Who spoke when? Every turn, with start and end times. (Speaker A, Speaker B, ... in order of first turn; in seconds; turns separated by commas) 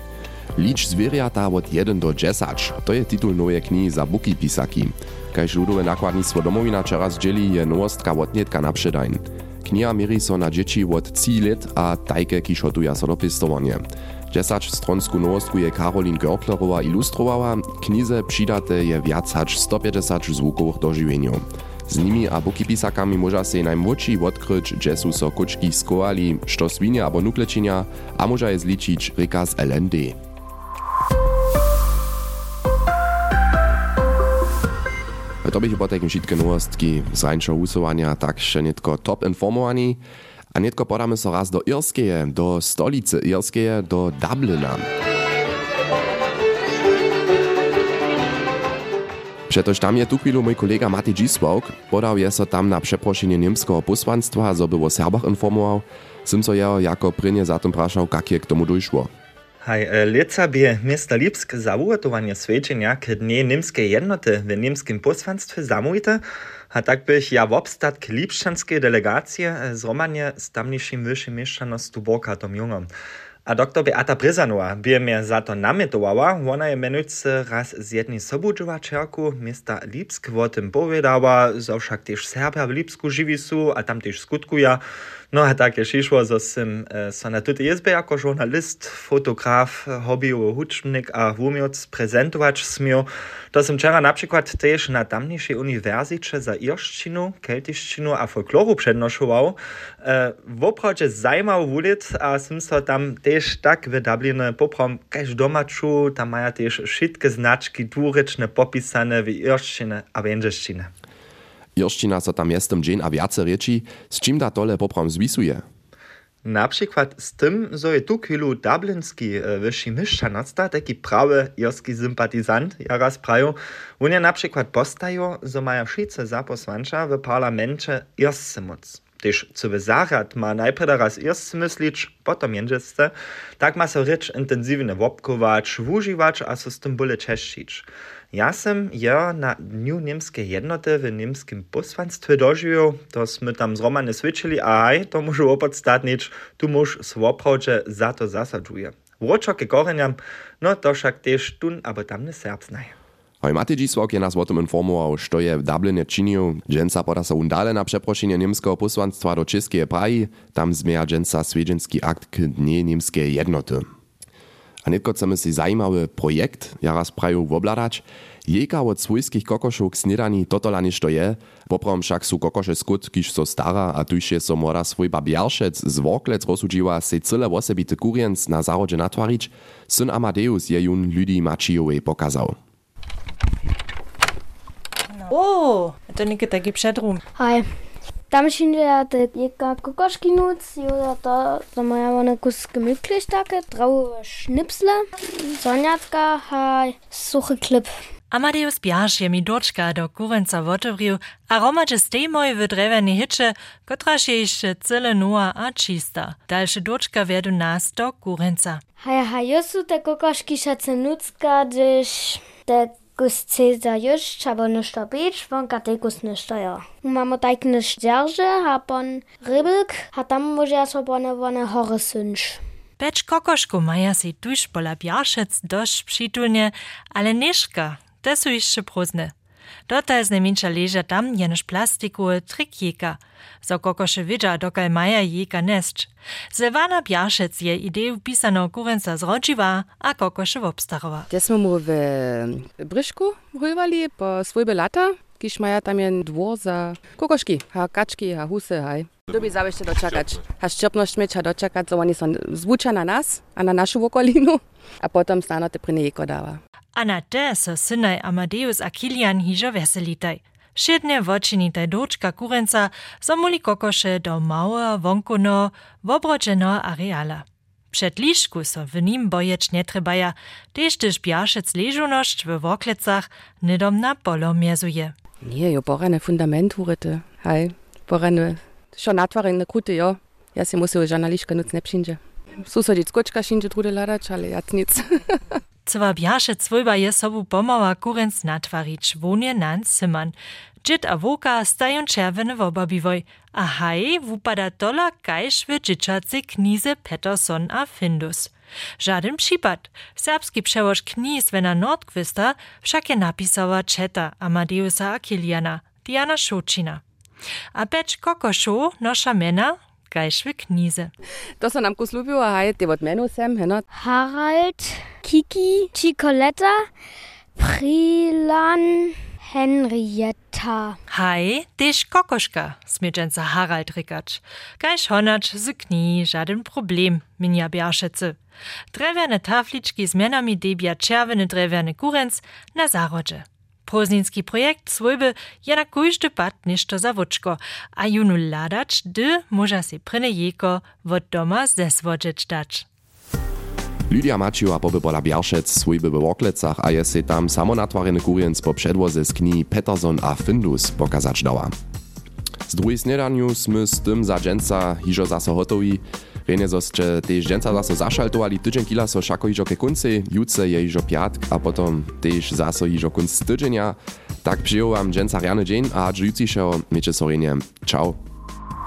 Speaker A: 0.6-30.2, Speaker A: 35.4-40.0, Speaker A: 40.5-44.9, Speaker A: 49.5-59.1, Speaker B: 59.6-72.9, Speaker B: 73.5-110.9, Speaker A: 111.8-115.7, Speaker B: 116.4-152.9, Speaker A: 153.4-163.8, Speaker A: 164.8-182.6, Speaker C: 185.1-187.2, Speaker D: 187.4-187.7, Speaker D: 188.3-197.9, Speaker C: 198.3-208.8, Speaker D: 209.0-222.6, Speaker C: 223.0-229.3, Speaker C: 229.9-241.3, Speaker E: 241.3-256.6, Speaker C: 256.9-275.1, Speaker E: 275.4-285.6, Speaker C: 285.9-307.0, Speaker C: 307.7-311.1, Speaker E: 311.6-313.9, Speaker D: 313.9-316.8, Speaker D: 317.6-321.0, Speaker C: 321.1-328.4, Speaker C: 328.9-342.9, Speaker A: 344.1-351.7, Speaker A: 352.7-368.2